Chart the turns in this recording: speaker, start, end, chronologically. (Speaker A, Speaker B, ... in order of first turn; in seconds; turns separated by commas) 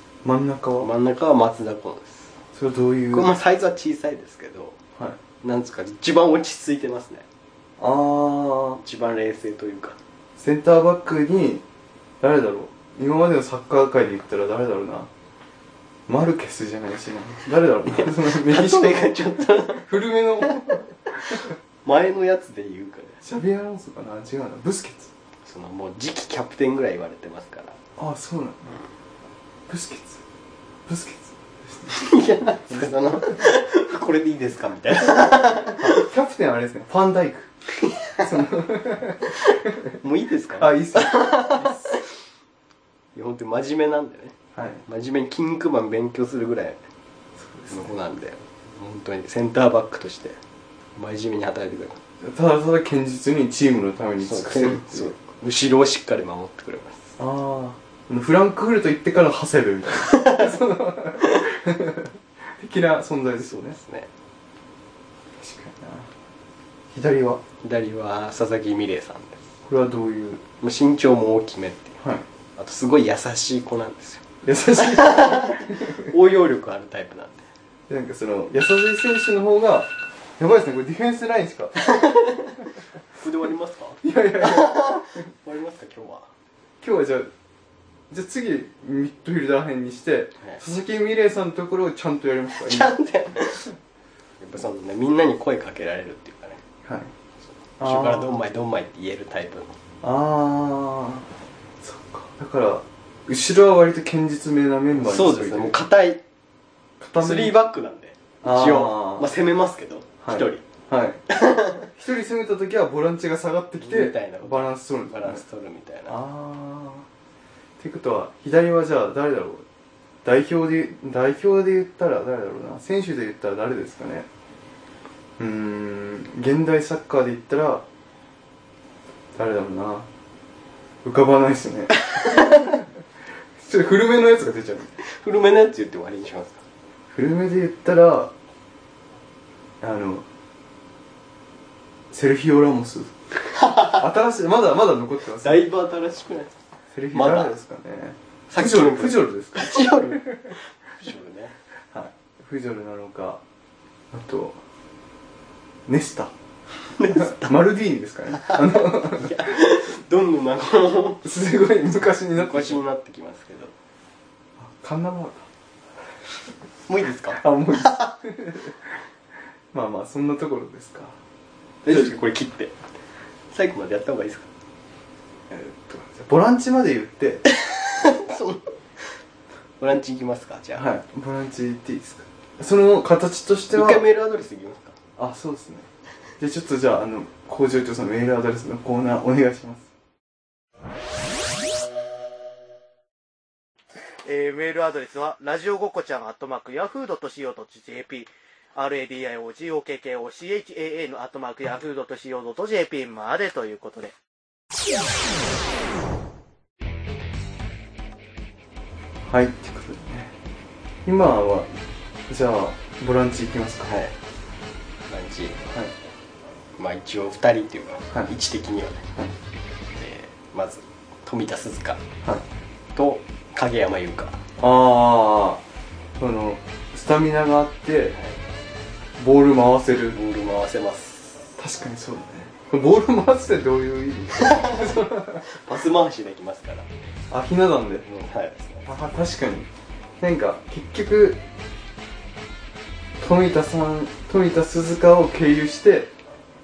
Speaker A: 0.2-0.9, Speaker B: 0.8-2.3, Speaker A: 2.5-3.3, Speaker B: 3.1-4.8, Speaker B: 5.4-7.2, Speaker A: 7.8-8.8, Speaker B: 8.8-10.0, Speaker A: 10.4-11.6, Speaker A: 12.2-15.1, Speaker A: 16.1-20.9, Speaker B: 17.9-19.9, Speaker B: 20.4-23.2, Speaker A: 23.2-25.1, Speaker B: 25.4-27.8, Speaker A: 28.0-28.8, Speaker A: 29.7-30.2, Speaker A: 30.9-32.0, Speaker B: 31.9-35.9, Speaker A: 35.8-37.5, Speaker A: 38.2-40.0, Speaker B: 40.0-42.0, Speaker A: 40.5-41.9, Speaker B: 43.1-44.3, Speaker A: 44.5-44.8, Speaker B: 44.9-46.8, Speaker A: 47.4-47.9, Speaker B: 47.7-50.4, Speaker B: 51.0-52.0, Speaker A: 52.2-55.1, Speaker B: 54.2-57.1, Speaker A: 57.2-63.8, Speaker B: 63.4-64.1, Speaker A: 65.4-66.1, Speaker A: 66.9-67.4, Speaker B: 67.6-69.4, Speaker A: 69.7-70.4, Speaker B: 70.6-72.0, Speaker B: 72.6-74.2, Speaker A: 74.4-76.1, Speaker B: 74.7-77.4, Speaker A: 77.9-81.8, Speaker B: 81.8-82.6, Speaker B: 83.1-86.3, Speaker A: 84.0-85.2, Speaker A: 86.8-87.3, Speaker A: 88.1-92.9, Speaker B: 92.5-93.8, Speaker B: 94.4-96.6, Speaker A: 96.8-97.1, Speaker A: 97.8-98.4, Speaker B: 97.8-99.7, Speaker A: 100.0-101.3, Speaker A: 101.8-105.8, Speaker B: 105.0-106.2, Speaker A: 107.0-107.5, Speaker B: 107.2-110.6, Speaker A: 108.4-109.3, Speaker A: 110.2-111.3, Speaker B: 111.3-111.9, Speaker A: 111.9-115.4, Speaker B: 113.8-116.2, Speaker A: 116.1-117.0, Speaker A: 117.8-119.6, Speaker A: 120.2-124.3, Speaker A: 125.4-127.8, Speaker A: 129.3-130.1, Speaker A: 131.0-132.8, Speaker A: 133.6-134.9, Speaker B: 135.0-136.6, Speaker A: 137.1-138.3, Speaker A: 139.8-140.2, Speaker A: 142.1-143.1, Speaker B: 143.7-144.0, Speaker A: 143.7-145.7, Speaker B: 145.4-146.5, Speaker A: 146.9-150.4, Speaker B: 147.1-147.6, Speaker B: 148.5-151.5, Speaker A: 151.9-153.4, Speaker A: 154.1-154.6, Speaker A: 155.9-156.3, Speaker B: 156.9-157.6, Speaker A: 157.0-159.4, Speaker B: 158.4-161.3, Speaker A: 161.2-162.8, Speaker B: 162.3-163.7, Speaker A: 164.6-165.5, Speaker B: 166.9-167.4, Speaker A: 167.3-168.8, Speaker A: 169.7-171.2, Speaker B: 171.8-172.7, Speaker B: 173.5-174.5, Speaker A: 175.5-177.4, Speaker B: 177.5-179.2, Speaker B: 179.8-180.9, Speaker A: 180.8-184.1, Speaker B: 183.7-184.9, Speaker A: 185.2-185.9, Speaker A: 186.4-189.9, Speaker C: 194.2-204.1, Speaker A: 209.3-210.3, Speaker A: 211.1-211.7, Speaker A: 212.3-214.0, Speaker B: 213.9-214.1, Speaker B: 215.1-215.6, Speaker B: 216.8-219.1, Speaker B: 219.9-222.0, Speaker B: 222.9-224.4, Speaker A: 224.6-225.6, Speaker A: 226.2-228.2, Speaker B: 228.1-228.4, Speaker A: 229.2-230.2, Speaker B: 230.1-231.5, Speaker A: 231.6-235.5, Speaker B: 234.5-236.9, Speaker A: 237.3-238.1, Speaker B: 238.1-238.9, Speaker A: 238.8-239.7, Speaker A: 240.2-241.4, Speaker A: 243.2-246.1